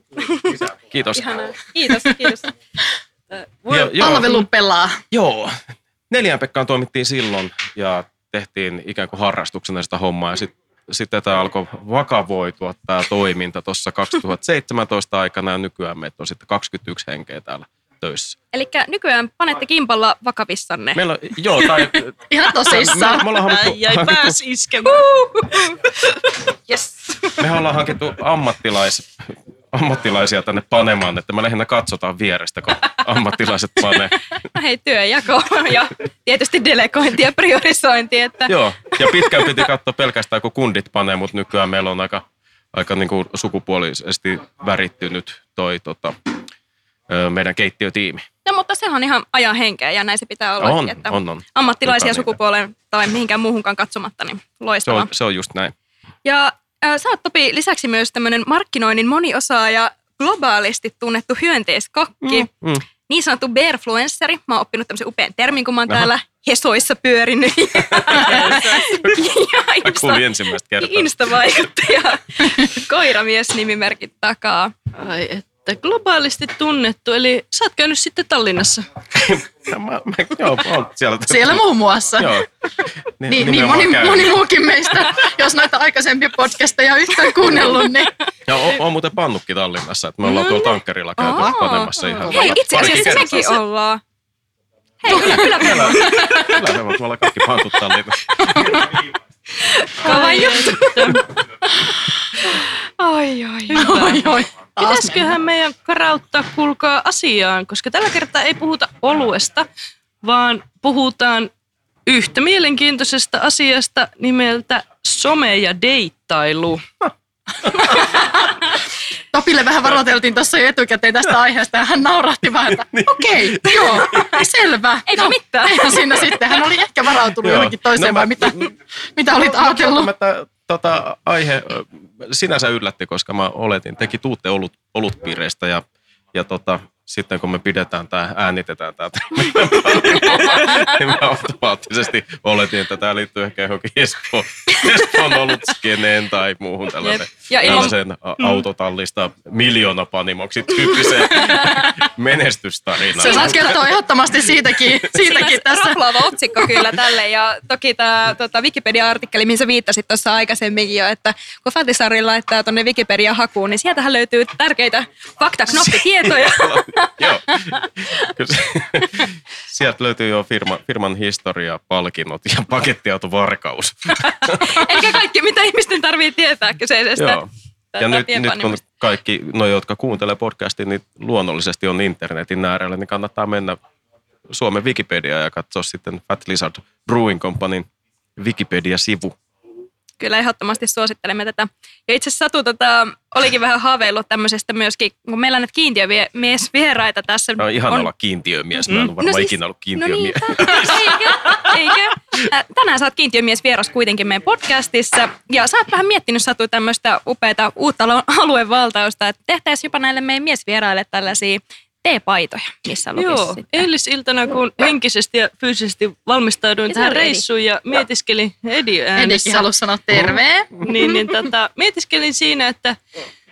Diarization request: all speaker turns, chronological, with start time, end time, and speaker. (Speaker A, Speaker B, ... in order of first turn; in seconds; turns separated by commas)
Speaker A: 0.7-1.5, Speaker B: 1.1-2.5, Speaker C: 3.3-4.3, Speaker A: 3.7-4.3, Speaker D: 4.0-5.0, Speaker A: 5.1-18.4, Speaker B: 18.5-21.0, Speaker A: 20.9-24.4, Speaker D: 22.3-23.2, Speaker C: 22.9-25.0, Speaker B: 24.8-25.8, Speaker B: 26.5-27.4, Speaker A: 27.4-34.2, Speaker B: 34.4-39.5, Speaker A: 38.5-46.2, Speaker A: 47.1-48.2, Speaker B: 48.4-55.1, Speaker A: 50.6-52.3, Speaker A: 54.9-55.7, Speaker B: 56.2-62.5, Speaker A: 62.2-62.8, Speaker B: 63.1-74.7, Speaker A: 67.9-71.4, Speaker C: 68.1-69.0, Speaker C: 75.0-78.8, Speaker A: 79.1-81.6, Speaker D: 81.3-82.4, Speaker A: 82.2-82.5, Speaker A: 83.0-84.4, Speaker D: 83.3-88.1, Speaker A: 87.4-87.8, Speaker A: 88.5-93.6, Speaker B: 90.3-94.0, Speaker D: 92.2-92.8, Speaker B: 95.0-96.7, Speaker D: 95.1-96.5, Speaker A: 95.1-98.4, Speaker D: 98.5-98.8, Speaker B: 99.6-101.9, Speaker C: 100.0-101.2, Speaker B: 102.4-104.1, Speaker C: 103.7-109.7, Speaker D: 103.8-105.3, Speaker C: 110.2-111.5, Speaker C: 112.1-116.8, Speaker D: 117.9-118.5, Speaker D: 119.3-130.1, Speaker A: 122.7-124.5, Speaker B: 125.1-126.4, Speaker A: 127.4-128.7, Speaker A: 129.4-153.8, Speaker C: 147.0-147.8, Speaker B: 147.5-147.9, Speaker D: 151.4-151.8, Speaker D: 153.2-156.1, Speaker B: 153.2-153.8, Speaker B: 155.1-168.3, Speaker A: 165.7-175.0, Speaker B: 174.4-177.4, Speaker A: 177.2-177.5, Speaker B: 177.9-178.8, Speaker A: 178.0-183.8, Speaker A: 184.5-189.3, Speaker B: 190.2-198.1, Speaker A: 197.6-201.8, Speaker C: 198.8-199.1, Speaker B: 199.2-213.8, Speaker C: 213.2-219.7, Speaker B: 216.9-217.4, Speaker D: 219.2-220.8, Speaker C: 220.8-223.0